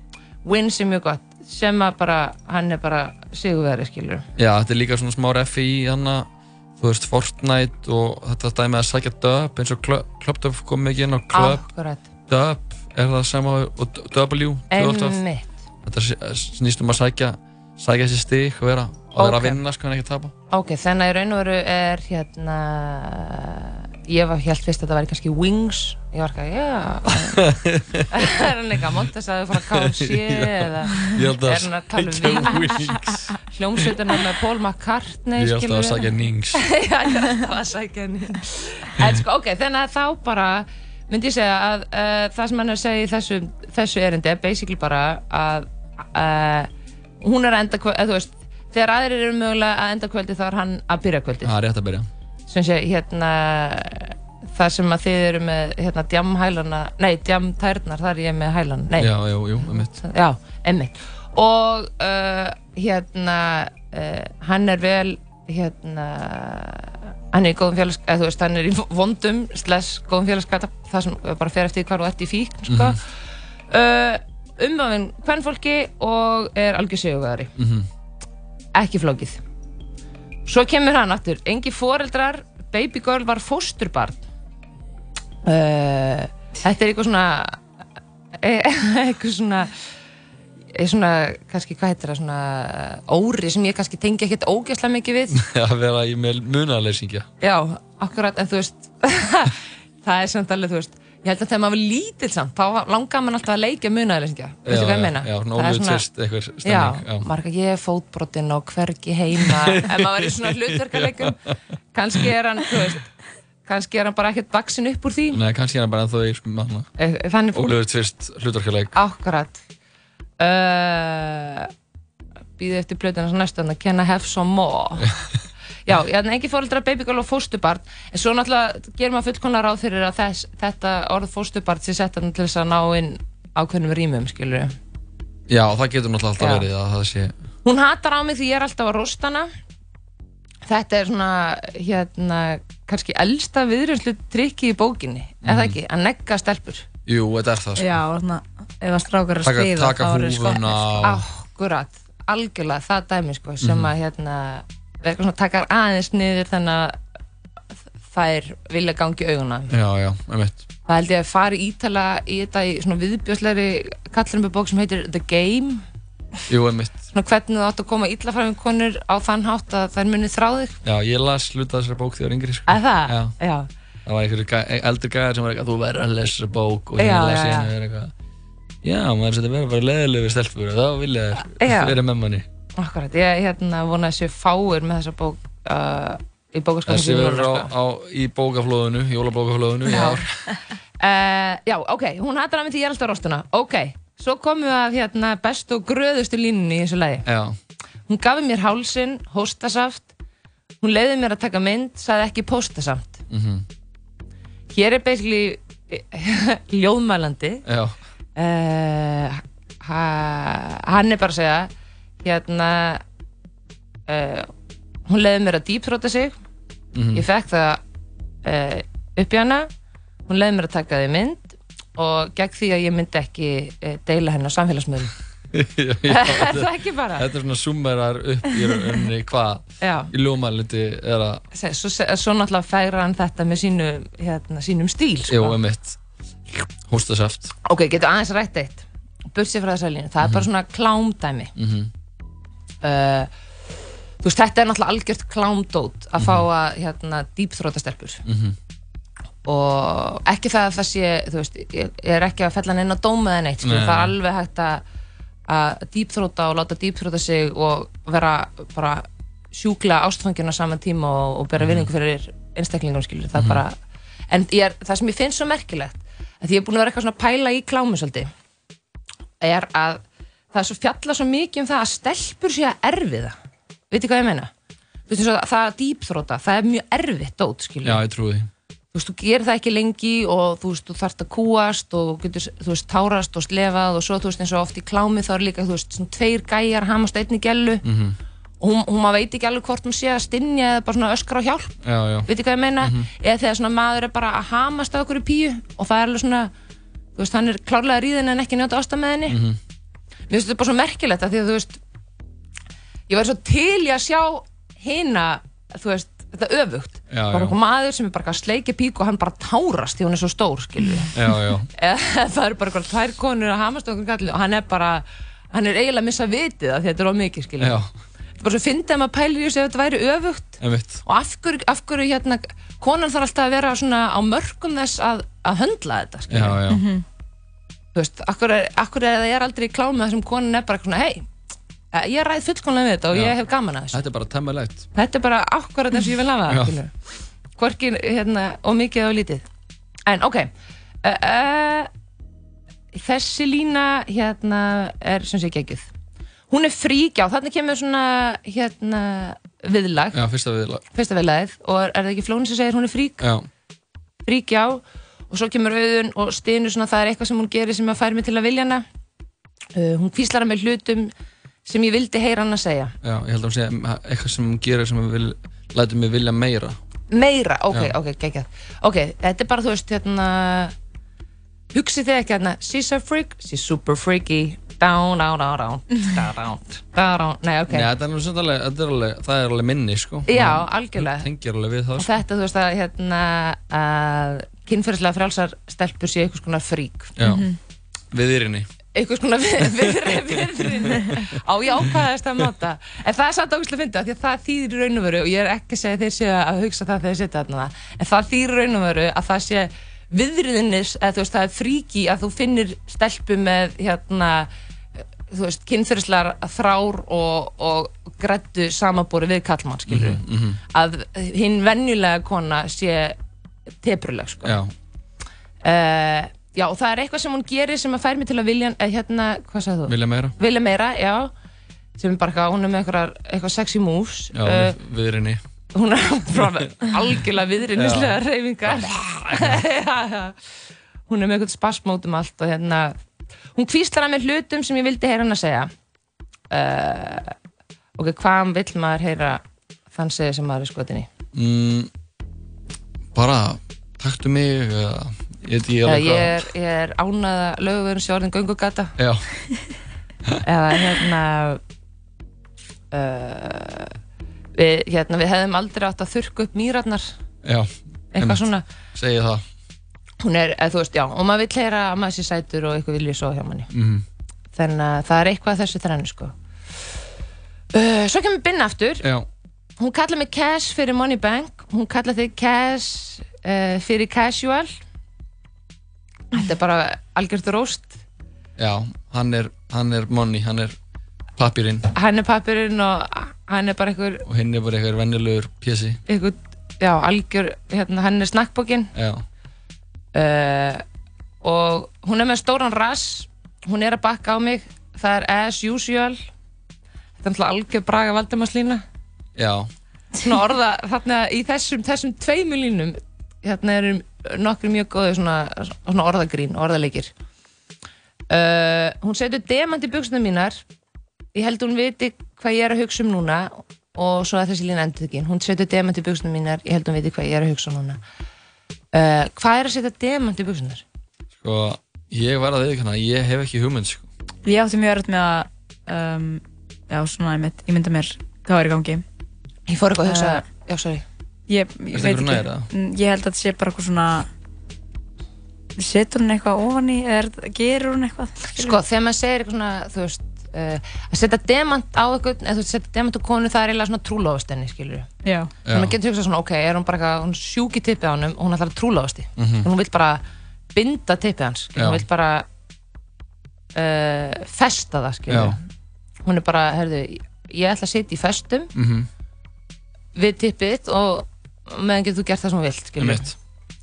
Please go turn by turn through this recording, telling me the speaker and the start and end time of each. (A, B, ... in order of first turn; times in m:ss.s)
0:00.4-0:04.2 A
0:04.4-0:11.6 B
0:11.3-0:12.1 A
0:12.3-0:15.2 B
0:14.7-0:15.5 A
0:15.8-0:20.3 B
0:19.2-0:19.6 A
0:20.5-0:27.4 A
0:27.1-0:28.3 B
0:28.1-0:33.0 A
0:29.6-0:33.9 B
0:33.5-0:46.7 A
0:35.4-0:36.6 B
0:47.2-0:51.5 A
0:51.4-0:52.1 B
0:52.5-1:13.0 A
0:59.0-1:00.0 B
1:12.7-1:13.0 B
1:13.7-1:17.5 A
1:17.6-1:17.9 B
1:18.7-1:19.4 A
1:20.4-1:24.2 A
1:25.4-1:27.6 A
1:28.4-1:29.7 A
1:30.7-1:35.4 A
1:35.3-1:37.3 B
1:37.4-1:46.0 A
1:44.6-1:47.3 B
1:46.6-1:51.4 A
1:49.4-1:51.5 B
1:51.9-1:53.0 A
1:53.6-1:55.4 A
1:55.3-1:56.9 B
1:57.0-1:57.7 A
1:57.5-1:59.0 B
1:58.9-1:59.6 A
2:00.4-2:01.7 A
2:02.6-2:05.1 A
2:05.8-2:14.7 A
2:15.5-2:17.3 B
2:16.4-2:16.7 A
2:17.6-2:19.5 A
2:20.6-2:26.9 A
2:25.4-2:25.8 B
2:27.0-2:27.9 B
2:27.8-2:31.0 C
2:29.4-2:31.2 B
2:31.0-2:37.0 A
2:33.6-2:33.9 B
2:38.1-2:39.7 A
2:39.7-2:40.7 B
2:40.9-2:45.8 A
2:46.5-2:47.0 B
2:47.1-2:50.8 A
2:50.8-2:53.4 B
2:52.7-2:53.7 A
2:54.0-2:58.1 B
2:57.0-2:57.7 A
2:58.8-3:02.5 B
3:01.5-3:02.0 A
3:02.8-3:07.7 A
3:06.9-3:10.3 B
3:09.9-3:10.2 A
3:11.0-3:17.2 A
3:17.2-3:17.6 B
3:18.1-3:20.1 A
3:20.8-3:23.2 A
3:23.3-3:23.6 B
3:24.7-3:27.6 A
3:27.6-3:28.0 B
3:28.4-3:31.7 A
3:32.2-3:33.0 A
3:34.1-3:34.5 A
3:35.1-3:36.4 A
3:36.9-3:37.2 B
3:37.1-3:37.8 A
3:38.4-3:39.7 A
3:40.3-3:45.1 A
3:45.5-3:51.4 B
3:46.1-3:47.2 A
3:49.8-3:50.1 A
3:51.5-3:55.5 A
3:55.3-3:56.0 B
3:56.5-3:57.5 B
3:57.6-4:01.5 A
4:00.2-4:00.5 B
4:01.6-4:01.9 B
4:02.8-4:03.3 A
4:04.2-4:08.2 A
4:06.2-4:06.5 B
4:08.2-4:08.6 B
4:09.4-4:14.8 A
4:13.6-4:14.2 B
4:15.5-4:23.8 A
4:21.6-4:21.9 B
4:23.3-4:23.6 B
4:24.3-4:28.3 A
4:29.4-4:33.4 A
4:33.9-4:34.5 A
4:35.1-4:38.0 A
4:37.8-4:38.5 B
4:38.9-4:47.8 A
4:47.8-4:48.2 B
4:48.6-4:56.5 A
4:51.8-4:52.3 B
4:52.8-4:53.1 B
4:57.2-4:59.4 A
4:59.3-4:59.6 B
5:00.3-5:01.8 A
5:03.1-5:11.1 A
5:07.1-5:07.6 B
5:11.1-5:11.7 B
5:11.8-5:17.8 A
5:17.6-5:17.9 B
5:18.4-5:26.6 A
5:20.6-5:21.0 B
5:26.3-5:26.8 B
5:26.7-5:27.0 C
5:27.9-5:31.2 A
5:31.9-5:34.0 A
5:33.1-5:33.4 B
5:33.9-5:34.9 B
5:34.9-5:36.9 A
5:36.5-5:36.8 B
5:37.6-5:39.4 A
5:40.0-5:40.5 A
5:41.0-5:41.9 A
5:42.9-5:45.9 A
5:46.5-5:50.2 A
5:50.1-5:50.8 B
5:50.9-5:53.2 A
5:53.2-5:53.5 B
5:54.2-5:58.8 A
5:59.7-6:01.1 A
6:01.6-6:02.9 A
6:03.0-6:06.8 B
6:07.1-6:10.7 A
6:11.7-6:17.9 A
6:17.7-6:22.1 B
6:20.3-6:21.2 A
6:22.0-6:27.1 A
6:27.2-6:27.5 B
6:27.2-6:27.6 C
6:28.1-6:28.7 B
6:28.9-6:44.5 A
6:30.0-6:31.2 B
6:45.3-6:50.2 A
6:49.9-6:50.6 B
6:50.7-6:53.2 A
6:53.8-6:54.6 A
6:54.4-6:54.7 B
6:55.6-7:01.3 A
6:59.9-7:00.3 B
7:02.0-7:04.7 A
7:04.3-7:05.4 B
7:05.7-7:10.4 A
7:07.7-7:09.6 B
7:11.1-7:13.0 A
7:13.5-7:15.7 A
7:16.5-7:17.3 A
7:18.0-7:19.4 A
7:19.9-7:21.1 A
7:21.3-7:21.9 B
7:23.1-7:26.5 B
7:25.8-7:28.9 A
7:29.0-7:29.2 B
7:30.4-7:31.6 A
7:32.9-7:33.9 A
7:34.5-7:37.1 A
7:37.4-7:39.4 B
7:38.1-7:38.6 A
7:40.2-7:43.7 A
7:43.7-7:44.0 B
7:44.5-7:46.3 A
7:47.7-7:49.0 A
7:49.0-7:49.3 B
7:49.8-7:54.7 A
7:56.3-7:58.0 A
7:58.6-8:00.8 B
8:01.4-8:01.9 B
8:01.9-8:04.2 A
8:04.2-8:06.0 B
8:06.1-8:08.9 A
8:08.9-8:09.2 B
8:10.1-8:10.8 A
8:11.4-8:16.2 A
8:17.2-8:18.8 A
8:19.4-8:19.7 B
8:20.2-8:27.1 A
8:28.3-8:30.6 A
8:31.3-8:38.0 A
8:38.9-8:40.8 A
8:41.3-8:44.1 B
8:44.4-8:49.0 C
8:49.7-8:51.0 A
8:50.0-8:50.4 C
8:51.5-8:54.3 C
8:51.9-8:52.7 B
8:55.8-8:58.8 C
8:58.5-9:05.0 A
9:05.2-9:05.5 C
9:05.6-9:06.0 B
9:05.7-9:10.2 A
9:09.4-9:09.7 B
9:10.7-9:12.4 A
9:11.8-9:12.0 B
9:13.7-9:15.6 A
9:15.3-9:15.6 B
9:16.2-9:18.7 A
9:18.7-9:19.1 B
9:20.1-9:23.3 A
9:23.0-9:23.3 B